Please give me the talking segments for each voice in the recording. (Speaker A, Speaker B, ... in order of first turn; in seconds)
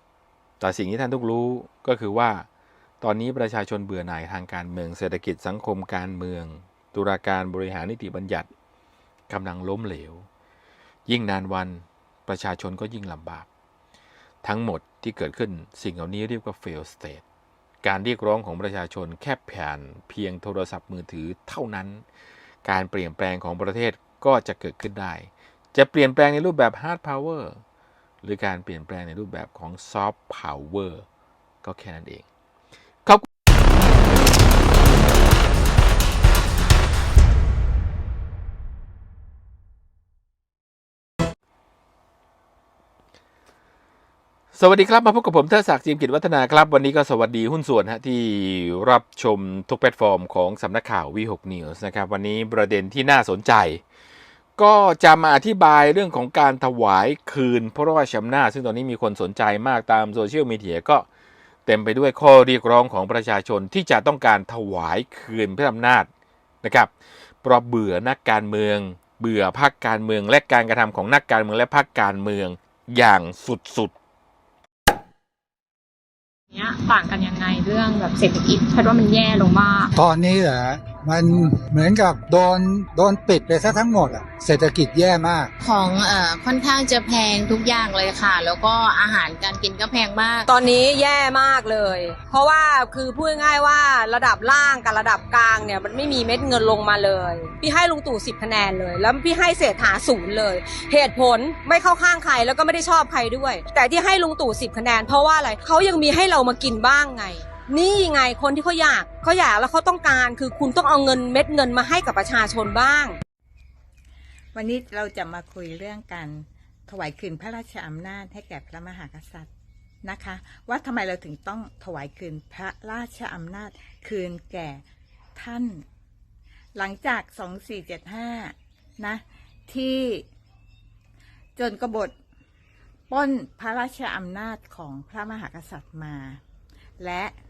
Speaker A: 0.6-2.5, 3.0-8.5, 9.3-10.3, 11.1-13.5, 14.4-17.2, 17.8-22.0, 22.6-27.6, 28.2-31.0, 31.6-32.2, 44.5-53.8, 54.6-61.0, 61.6-66.1, 66.6-66.9, 67.4-73.9
Speaker B: 76.5-79.9
Speaker C: 80.0-85.5
Speaker D: 85.6-90.5
Speaker E: 90.5-113.2
Speaker F: 114.5-119.5, 120.0-124.8, 125.3-125.8, 126.8-130.2, 131.6-132.1, 133.1-136.4, 137.0-137.3